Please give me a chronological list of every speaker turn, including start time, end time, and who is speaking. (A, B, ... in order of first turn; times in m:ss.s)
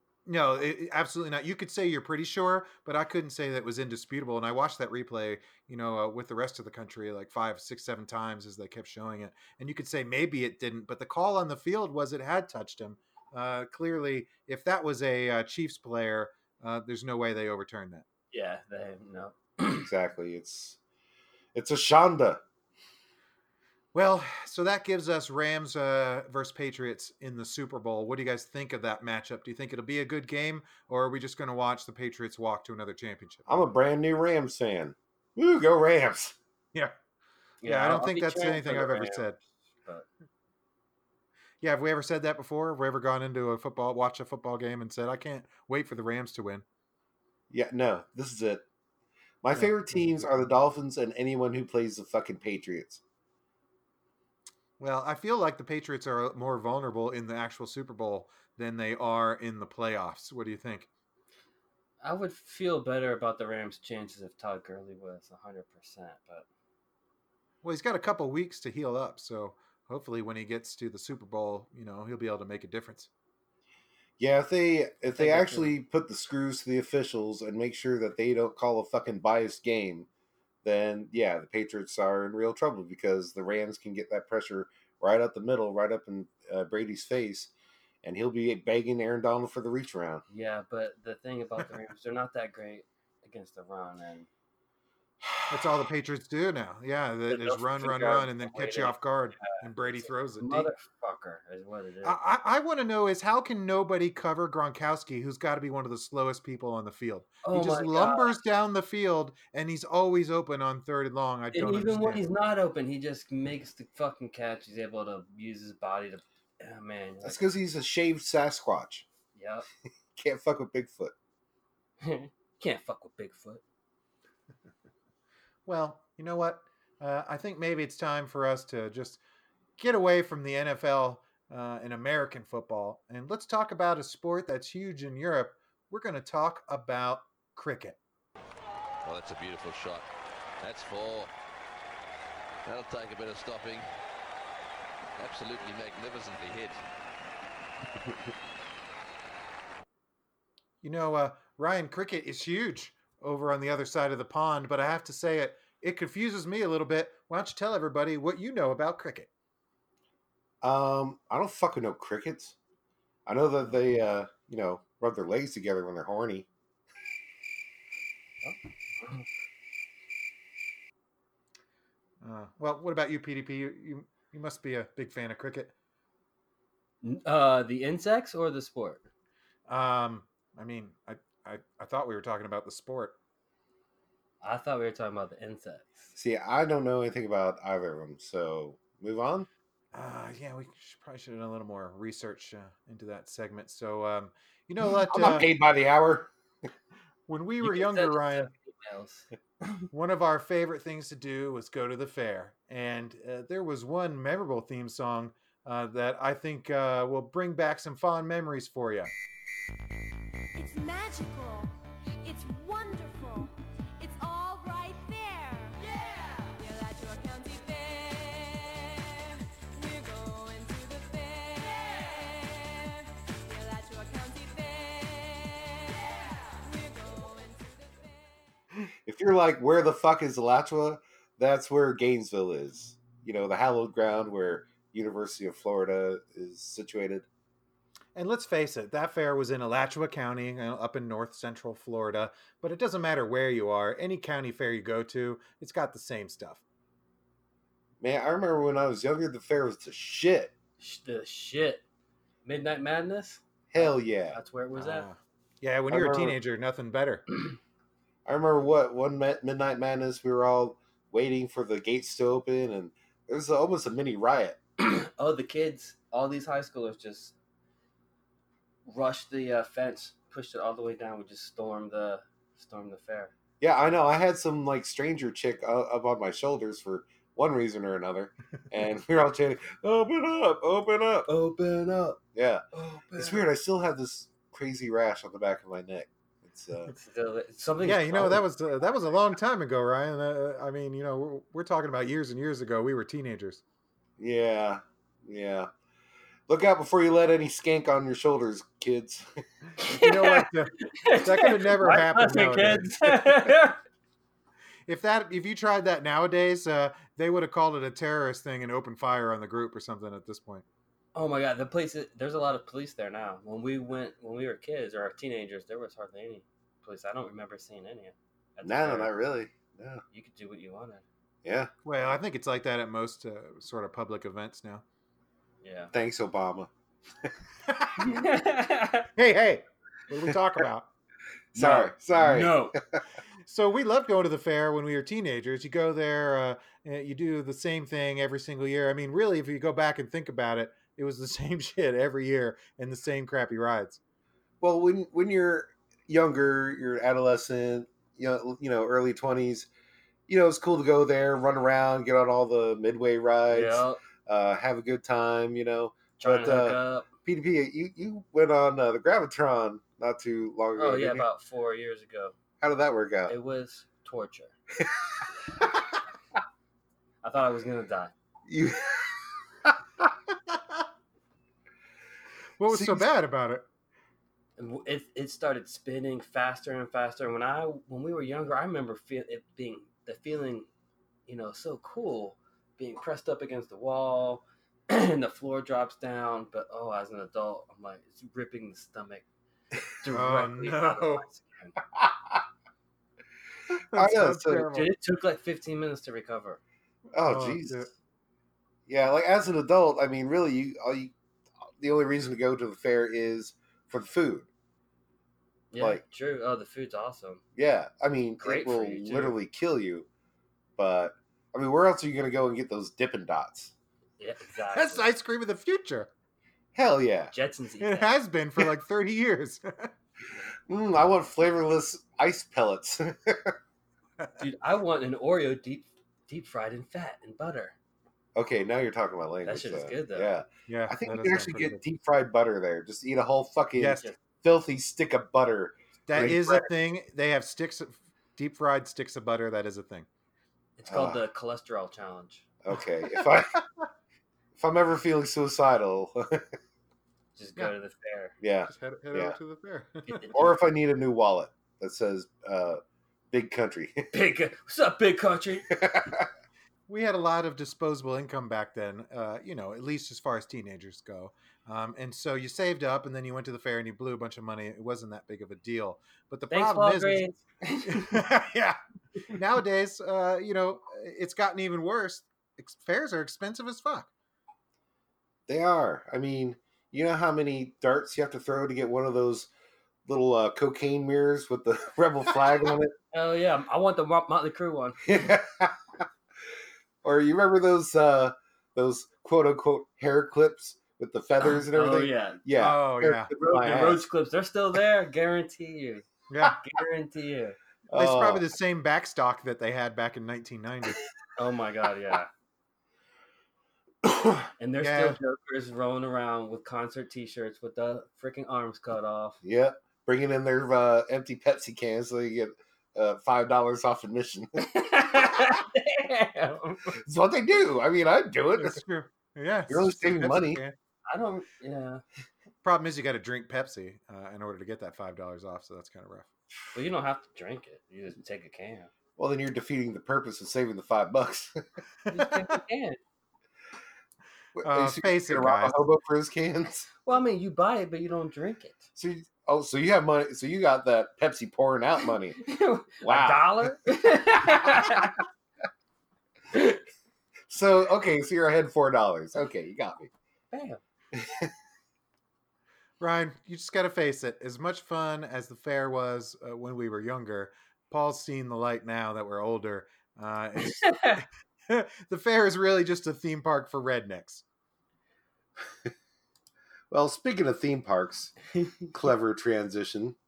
0:00.2-0:18.0 A
0:18.3-0:19.9 B
0:19.8-0:20.8 C
0:21.5-0:22.4 C
0:23.9-0:33.4 A
0:33.5-0:36.4 C
0:37.6-0:40.1 B
0:37.6-0:39.4 A
0:41.6-0:46.6 A
0:47.5-0:48.6 C
0:49.4-0:53.0 C
0:54.8-1:00.9 A
1:02.0-1:06.5 B
1:07.6-1:13.1 A
1:14.2-1:20.1 C
1:15.2-1:15.7 B
1:20.6-1:27.5 C
1:28.0-1:30.2 C
1:30.3-1:34.3 B
1:35.5-1:40.7 A
1:37.3-1:42.2 B
1:42.0-1:52.2 A
1:47.4-1:48.3 B
1:51.5-1:57.5 B
1:57.2-1:59.0 C
1:59.3-1:59.7 B
2:00.2-2:01.1 C
2:02.0-2:03.6 B
2:05.6-2:09.2 A
2:09.8-2:18.0 A
2:19.0-2:20.1 D
2:20.6-2:21.3 D
2:22.6-2:23.9 D
2:25.2-2:26.8 D
2:30.8-2:39.3 A
2:40.6-2:42.5 C
2:43.2-2:46.5 C
2:48.4-2:49.2 B
2:52.2-2:55.7 A
2:57.0-2:59.1 B
2:59.7-3:03.2 A
3:04.4-3:06.1 B
3:06.1-3:09.5 C
3:09.9-3:15.5 A
3:15.0-3:16.3 C
3:17.3-3:18.5 A
3:17.6-3:19.8 B
3:19.9-3:29.1 A
3:30.5-3:48.2 E
3:49.0-3:57.2 C
3:58.1-4:06.6 A
4:08.0-4:10.5 C
4:10.8-4:11.8 B
4:12.4-4:15.1 B
4:13.7-4:14.4 C
4:14.7-4:17.2 A
4:15.9-4:16.4 C
4:18.2-4:24.6 C
4:24.8-4:27.3 B
4:28.8-4:33.3 B
4:33.6-4:41.3 C
4:41.3-4:42.2 B
4:42.3-4:42.6 C
4:42.7-4:43.4 B
4:43.2-4:46.9 C
4:46.9-4:48.4 B
4:47.8-4:53.6 A
4:54.2-4:55.7 C
4:56.5-4:59.2 C
4:59.8-5:03.8 B
4:59.9-5:03.4 A
5:04.8-5:10.6 A
5:11.1-5:19.1 B
5:18.6-5:20.0 C
5:20.1-5:21.0 B
5:21.4-5:21.7 C
5:21.8-5:24.8 A
5:25.6-5:25.9 B
5:25.9-5:26.7 C
5:28.0-5:29.1 B
5:29.2-5:30.9 A
5:31.5-5:32.8 C
5:31.5-5:32.7 B
5:33.4-5:44.0 A
5:44.6-5:49.7 C
5:50.3-6:01.2 C
5:53.5-5:54.0 B
5:56.2-5:57.1 B
6:00.8-6:02.3 B
6:02.6-6:03.3 C
6:03.3-6:04.5 B
6:07.2-6:08.1 B
6:08.5-6:10.0 C
6:12.6-6:13.6 A
6:12.7-6:13.1 C
6:14.6-6:20.7 B
6:21.3-6:29.2 B
6:30.0-6:31.8 B
6:30.1-6:31.2 A
6:33.7-6:34.9 A
6:33.9-6:34.7 C
6:34.7-6:36.6 B
6:37.1-6:37.8 C
6:37.2-6:37.9 A
6:38.9-6:41.1 C
6:41.8-6:44.5 C
6:45.7-6:47.4 B
6:47.6-6:50.1 C
6:48.4-6:49.4 B
6:50.8-6:53.7 C
6:54.2-6:55.1 B
6:54.7-6:56.1 A
6:56.7-6:57.3 C
6:57.3-6:58.1 B
6:57.8-6:59.9 A
7:00.7-7:03.5 C
7:04.4-7:07.7 B
7:08.4-7:16.7 C
7:09.4-7:10.3 B
7:10.7-7:11.8 A
7:13.8-7:14.1 A
7:16.1-7:20.1 A
7:20.8-7:22.4 B
7:20.9-7:21.2 C
7:22.6-7:23.6 C
7:24.6-7:26.4 C
7:27.4-7:28.3 B
7:28.4-7:29.4 C
7:28.6-7:30.3 A
7:30.1-7:30.5 B
7:30.3-7:32.8 C
7:33.3-7:34.1 C
7:34.1-7:35.7 B
7:35.7-7:36.3 C
7:36.9-7:47.3 A
7:46.5-7:48.2 B
7:47.8-7:48.8 A
7:49.3-7:54.1 A
7:55.5-7:59.5 C
8:00.1-8:02.9 C
8:03.1-8:05.3 B
8:05.0-8:05.7 C
8:07.0-8:14.0 C
8:11.4-8:12.4 B
8:12.6-8:13.3 A
8:13.4-8:17.6 B
8:16.3-8:16.6 A
8:17.9-8:18.4 C
8:17.9-8:21.0 A
8:21.4-8:22.3 B
8:24.0-8:24.3 C
8:24.6-8:29.4 B
8:24.8-8:25.2 A
8:29.4-8:34.5 C
8:34.6-8:37.0 B
8:37.0-8:38.8 C
8:38.6-8:40.8 A
8:39.7-8:40.6 C
8:41.1-8:42.0 B
8:42.6-8:46.3 A
8:46.7-8:48.9 B
8:49.2-8:51.6 C
8:52.1-8:53.0 B
8:54.6-8:56.9 C
8:54.6-8:55.8 A
8:57.0-8:58.9 B
8:59.0-9:02.4 C
9:02.4-9:05.1 B
9:03.0-9:03.7 C
9:04.7-9:05.1 C
9:06.5-9:06.8 B
9:07.5-9:10.1 C
9:10.5-9:10.8 B
9:11.1-9:11.5 C
9:13.0-9:24.4 A
9:20.7-9:21.2 B
9:26.9-9:28.4 C
9:28.9-9:30.2 C